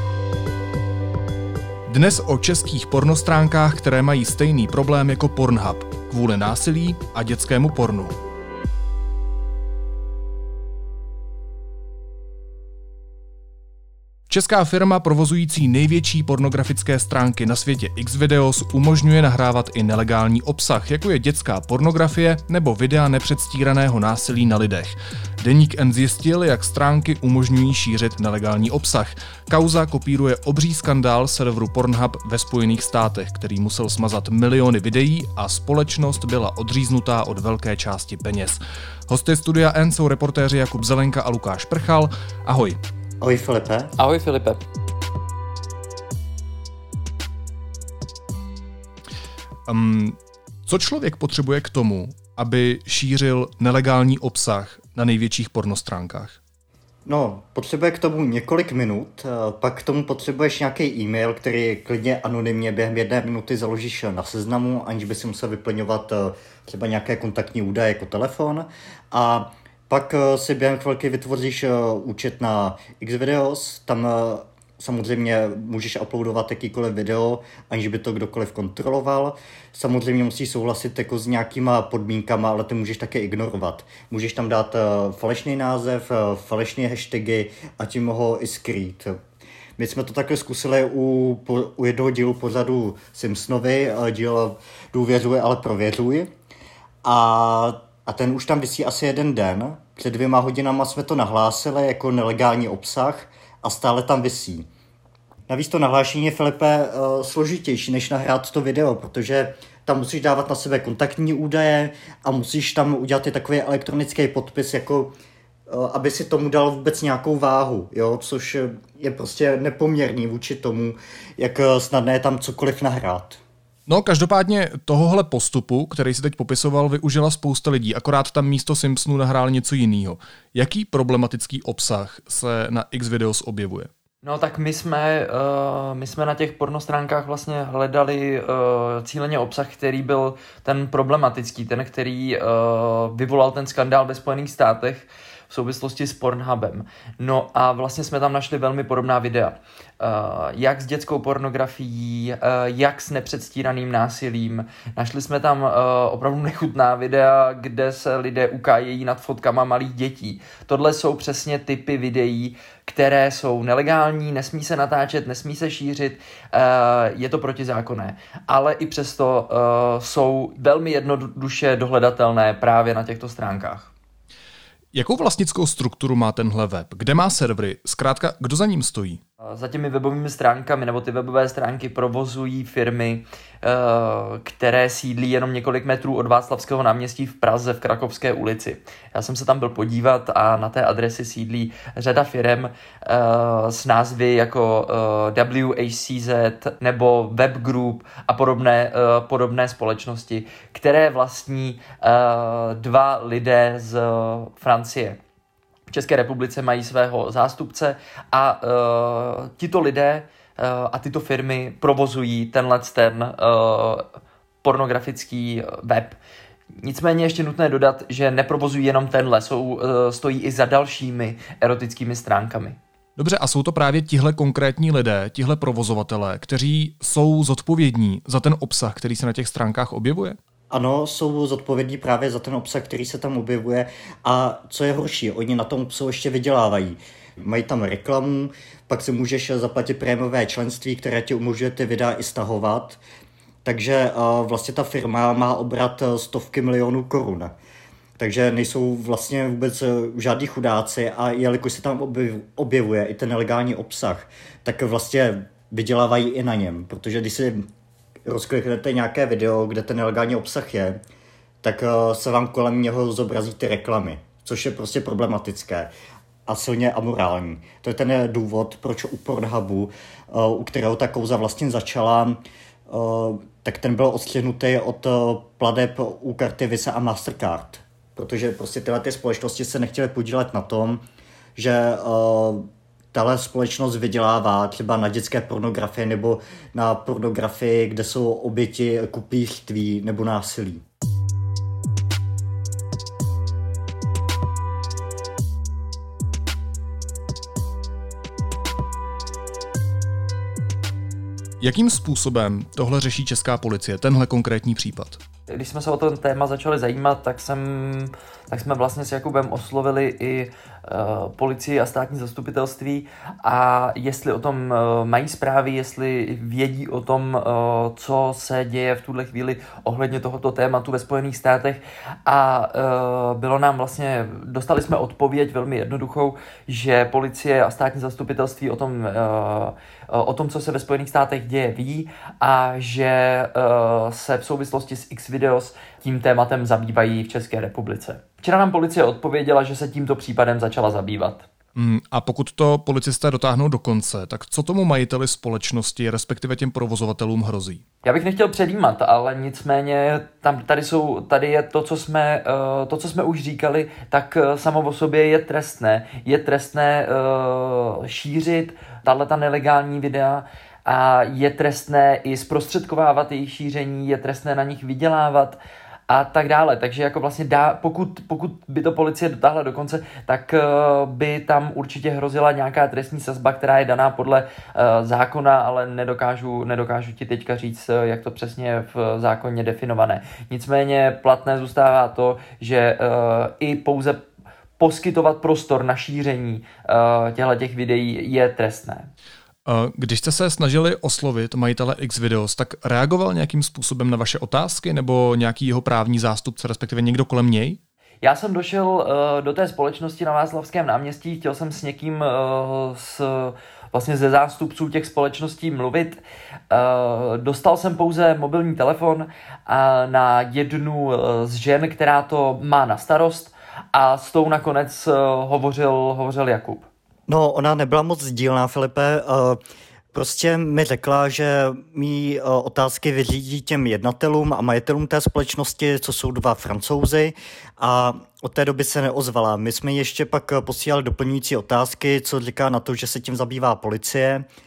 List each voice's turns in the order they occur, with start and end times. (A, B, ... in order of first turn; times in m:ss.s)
0:01.9-0:08.2 A
0:14.3-0:42.8 A
0:43.2-0:43.9 B
0:44.0-0:44.6 C
0:49.7-0:56.4 A
0:57.1-1:29.2 B
1:29.8-1:36.3 B
1:37.0-1:44.7 B
1:45.5-1:55.1 B
1:55.7-2:03.4 B
2:03.9-2:13.9 A
2:14.2-2:53.9 C
2:54.9-2:59.2 A
2:59.4-3:25.2 C
3:25.9-3:34.1 C
3:34.6-3:36.2 C
3:36.8-3:42.8 C
3:43.2-3:50.4 A
3:50.7-4:03.0 B
4:03.6-4:07.5 B
4:08.2-4:17.6 B
4:18.2-4:21.0 B
4:21.6-4:25.9 B
4:26.5-4:41.0 B
4:41.6-4:50.8 B
5:01.6-5:05.2 A
5:05.5-5:41.5 C
5:41.8-5:47.8 A
5:48.0-6:24.2 C
6:24.8-6:29.1 C
6:29.6-6:37.8 A
6:38.2-6:56.9 C
6:57.3-6:59.6 B
7:00.1-7:14.4 B